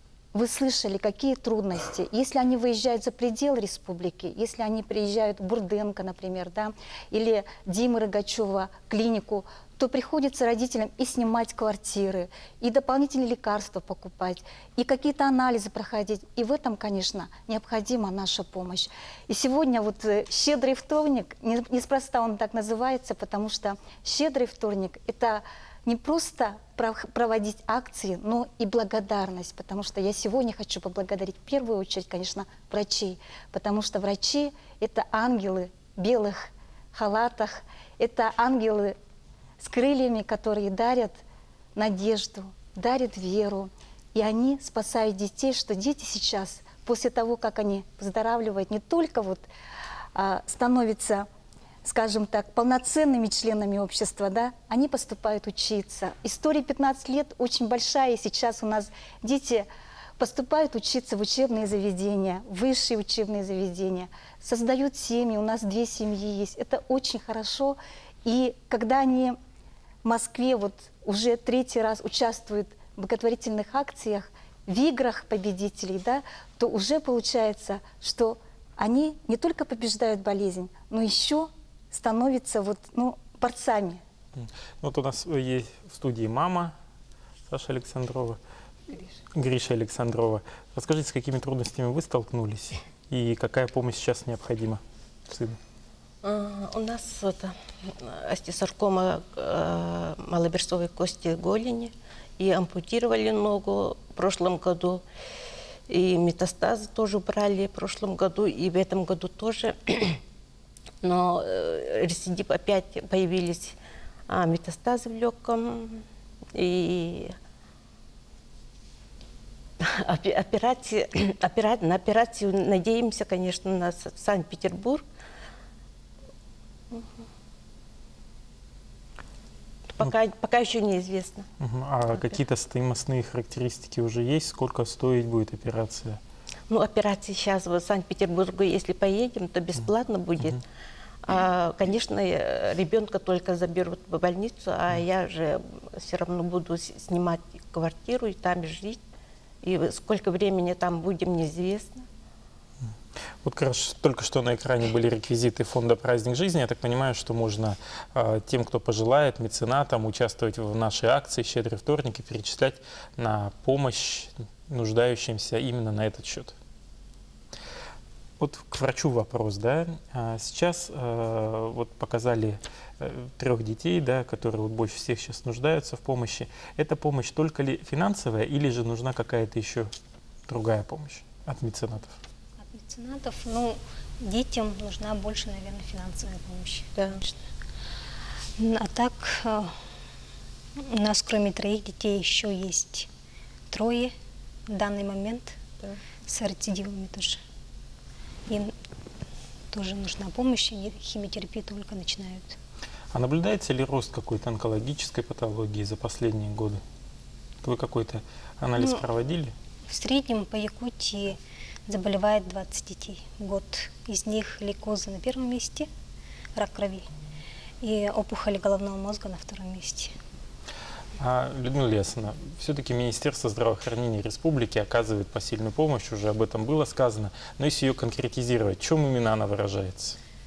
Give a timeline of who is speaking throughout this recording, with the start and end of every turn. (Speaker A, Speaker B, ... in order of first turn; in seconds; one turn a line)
Speaker A: 0.3-39.0
Speaker A: 39.6-41.2
Speaker A: 41.8-49.5
Speaker A: 50.1-51.3
Speaker A: 51.8-59.7
Speaker A: 60.2-69.4
Speaker A: 70.0-84.0
Speaker B: 84.3-86.7
Speaker B: 87.5-88.4
Speaker B: 89.3-95.6
Speaker C: 96.2-105.0
Speaker C: 105.9-110.2
Speaker C: 111.0-117.4
Speaker C: 119.8-125.0
Speaker C: 126.9-127.2
Speaker C: 129.9-131.5
Speaker B: 131.6-136.2
Speaker C: 136.7-140.6
Speaker C: 141.2-149.0
Speaker C: 149.6-152.1
Speaker B: 153.4-166.5
Speaker B: 168.4-179.9
Speaker B: 180.5-182.2
Speaker D: 182.6-187.4
Speaker C: 186.9-187.2
Speaker D: 188.6-189.7
Speaker D: 190.8-193.1
Speaker D: 193.7-194.1
Speaker D: 194.7-195.6
Speaker D: 196.2-197.4
Speaker D: 198.5-198.7
Speaker D: 199.7-202.6
Speaker B: 203.1-206.8
Speaker B: 207.6-209.5
Speaker D: 208.8-209.0
Speaker D: 209.8-215.9
Speaker D: 216.6-217.1
Speaker D: 217.8-220.1
Speaker B: 221.2-230.2